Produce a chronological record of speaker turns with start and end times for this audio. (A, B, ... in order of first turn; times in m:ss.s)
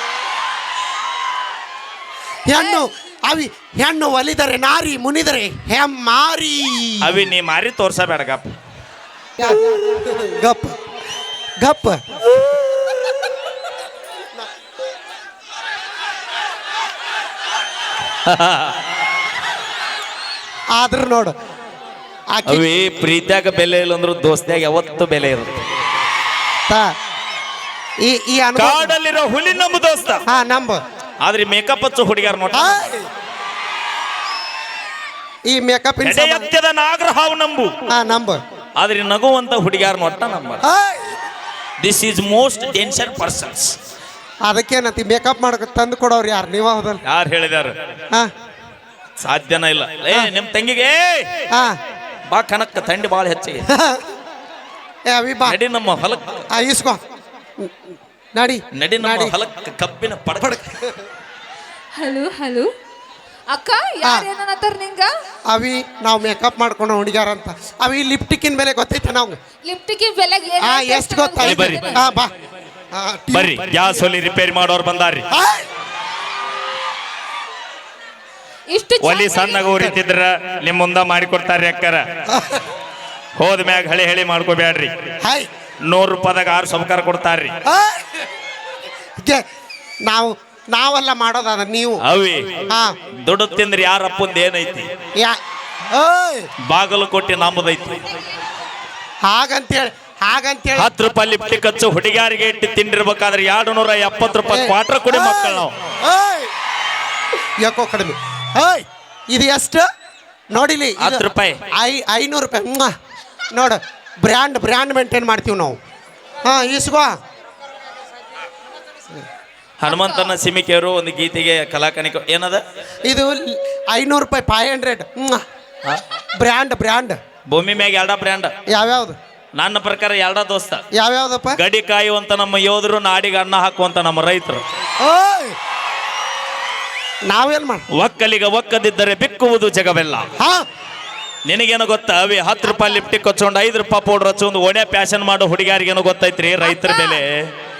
0:02.5-0:07.1 A
0:02.5-0:02.8 B
0:07.0-0:08.5 C
0:09.4-0:10.8 A
0:11.6-0:12.0 A
0:12.9-0:13.3 A
0:18.2-0:18.8 C
0:20.7-0:21.3 A
0:22.3-0:22.6 A
0:22.5-0:25.6 C
0:26.7-0:26.9 A
0:28.0-0:28.9 A
0:28.6-0:30.2 C
0:30.3-0:30.8 A
0:31.2-0:32.9 C
0:32.5-0:33.0 A
0:35.4-0:36.4 A
0:36.0-0:37.7 C
0:37.9-0:38.4 A
0:38.8-0:40.6 C
0:40.6-0:41.1 A
0:41.8-0:43.7 C
0:44.4-0:47.0 A
0:47.0-0:47.8 C
0:49.2-0:51.4 C
0:51.5-0:51.8 A
0:52.3-0:53.7 C
0:53.7-0:54.0 A
0:55.1-0:55.6 A
0:55.4-0:56.4 C
0:56.5-0:57.0 A
0:58.3-0:59.3 A
0:58.7-1:00.5 C
1:00.4-1:01.0 A
1:01.9-1:02.7 B
1:03.5-1:05.1 B
1:05.5-1:09.4 A
1:09.6-1:12.0 B
1:10.6-1:12.3 A
1:11.4-1:11.8 C
1:12.9-1:13.7 A
1:13.3-1:15.3 C
1:15.3-1:15.6 A
1:18.7-1:19.6 B
1:19.0-1:22.2 C
1:22.3-1:22.6 A
1:23.4-1:24.9 C
1:25.2-1:25.5 A
1:25.9-1:27.6 C
1:27.6-1:28.2 A
1:30.0-1:32.0 A
1:32.0-1:32.5 C
1:32.7-1:32.9 A
1:33.2-1:34.9 C
1:35.9-1:36.5 A
1:36.7-1:38.0 C
1:39.3-1:40.9 A
1:40.8-1:45.7 C
1:44.5-1:46.5 A
1:47.6-1:49.9 A
1:50.5-1:52.9 A
1:51.0-1:51.6 C
1:53.5-1:55.8 A
1:56.4-1:57.1 A
1:59.8-2:02.6 C
2:03.0-2:05.4 A
2:06.4-2:07.2 A
2:07.5-2:08.5 C
2:08.7-2:09.2 A
2:09.6-2:10.8 C
2:10.9-2:11.6 A
2:11.6-2:14.6 C
2:15.0-2:15.6 A
2:17.3-2:17.8 A
2:17.9-2:20.3 C
2:20.4-2:20.6 A
2:21.5-2:27.3 C
2:26.6-2:27.2 B